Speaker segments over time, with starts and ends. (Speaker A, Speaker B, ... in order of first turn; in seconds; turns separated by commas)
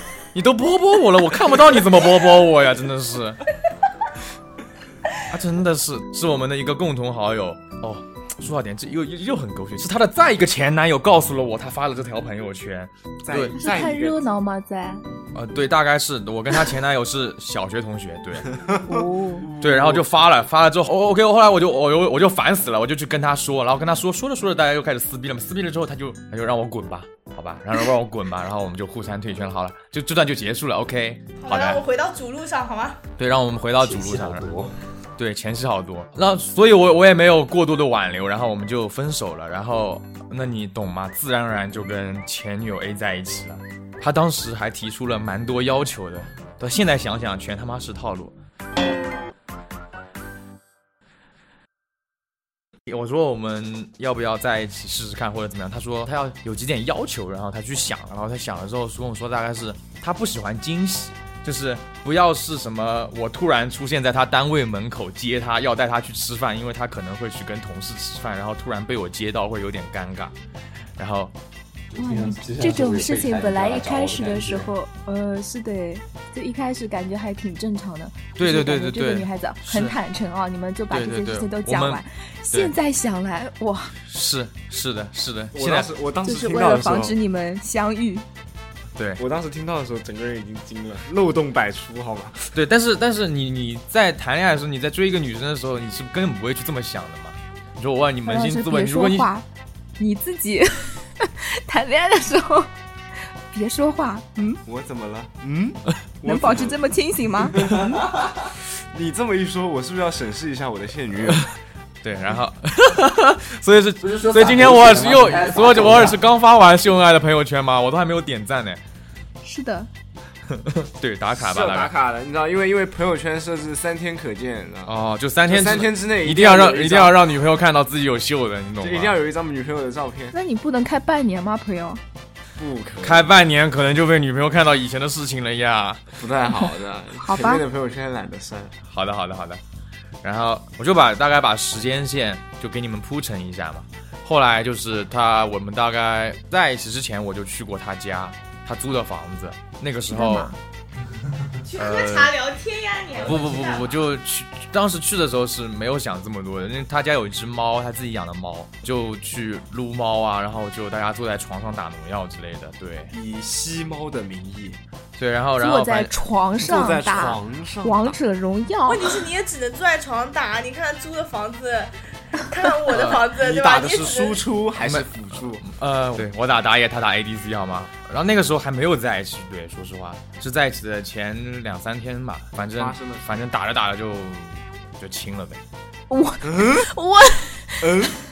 Speaker A: 0.3-3.4, Speaker A: 5.3-13.6, Speaker B: 13.2-14.2, Speaker C: 13.6-15.0, Speaker A: 15.3-18.5, Speaker B: 18.5-20.0, Speaker C: 18.9-19.5, Speaker A: 19.6-31.8, Speaker D: 31.4-33.0, Speaker A: 33.2-34.5, Speaker E: 33.8-34.8, Speaker A: 35.2-48.3, Speaker A: 52.9-70.3, Speaker A: 71.0-71.3, Speaker E: 71.9-74.7, Speaker C: 72.0-83.9, Speaker A: 78.3-80.0, Speaker A: 80.9-82.7, Speaker A: 84.0-85.9, Speaker B: 85.5-87.2, Speaker C: 86.2-88.2, Speaker A: 89.0-89.2, Speaker B: 89.2-92.5, Speaker A: 92.5-99.3, Speaker C: 98.2-99.5, Speaker C: 100.0-102.7, Speaker C: 103.5-104.6, Speaker B: 104.6-106.8, Speaker C: 106.2-107.7, Speaker B: 107.6-107.9, Speaker E: 107.6-108.3, Speaker B: 108.9-111.4, Speaker A: 112.0-118.8, Speaker E: 114.0-116.2, Speaker C: 119.4-119.9, Speaker A: 120.5-121.9, Speaker B: 121.3-124.9, Speaker A: 124.8-129.2, Speaker B: 125.4-127.2, Speaker B: 128.8-130.3, Speaker C: 130.3-132.0, Speaker B: 132.6-133.3, Speaker A: 133.0-136.1, Speaker B: 136.2-138.7, Speaker C: 137.2-137.6, Speaker A: 138.8-139.6, Speaker A: 140.2-150.5, Speaker C: 150.1-150.6, Speaker D: 151.6-154.0, Speaker A: 151.8-152.3, Speaker A: 153.2-163.1, Speaker B: 163.1-164.8, Speaker A: 165.2-166.2, Speaker C: 165.6-169.2, Speaker B: 166.6-168.2, Speaker D: 168.8-174.4, Speaker A: 172.9-173.2, Speaker B: 173.1-175.7, Speaker A: 174.8-185.6, Speaker B: 182.7-183.3, Speaker C: 186.1-188.1, Speaker B: 186.4-186.9, Speaker B: 187.8-188.1